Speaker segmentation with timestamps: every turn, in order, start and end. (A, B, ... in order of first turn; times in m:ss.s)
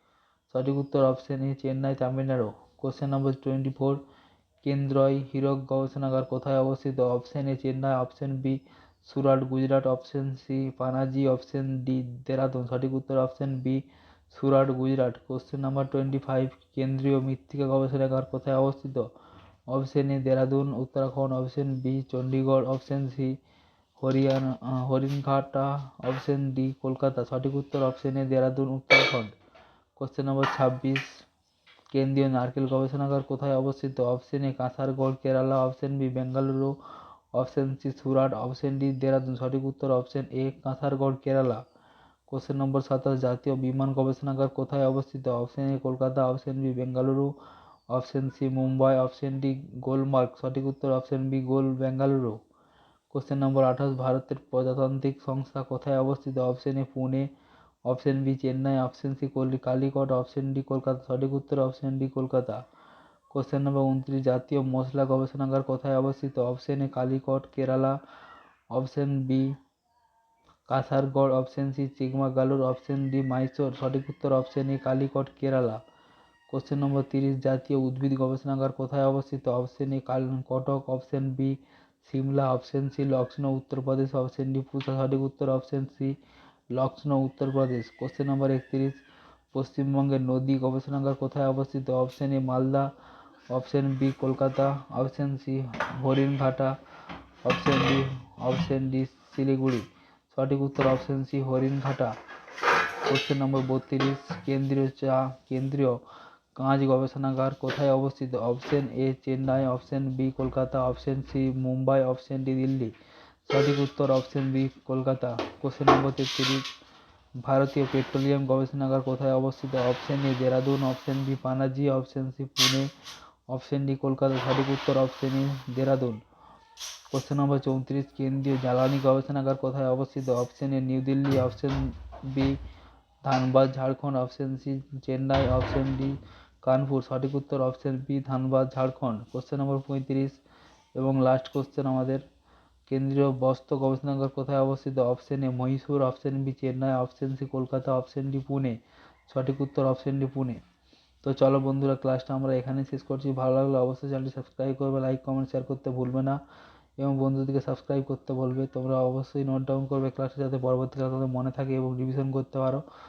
0:00.5-0:04.0 A
0:04.6-0:19.1 A
0:19.7-0:23.4 A
0:24.0-0:29.3 A
0:30.0-0:31.2 A
0:31.9-0:36.8 A
0:37.3-0:41.6 A
0:42.3-0:47.3 A
0:47.9-0:52.4 A
0:53.1-0:57.3 A
0:57.8-1:02.6 A
1:03.3-1:08.0 A
1:08.7-1:09.5 A
1:10.7-1:15.8 A
1:16.5-1:26.2 A
1:26.7-1:29.0 A
1:29.5-1:32.9 A
1:33.5-1:36.8 A
1:37.4-1:42.1 A
1:43.1-1:46.0 A
1:46.6-1:52.9 A
1:53.5-1:56.6 A
1:57.4-2:02.9 A
2:03.5-2:06.2 A
2:07.1-2:12.6 A
2:13.2-2:20.4 A
2:21.0-2:22.2 A
2:22.9-2:28.8 A
2:29.3-2:30.6 A
2:31.2-2:36.4 A
2:37.0-2:42.8 A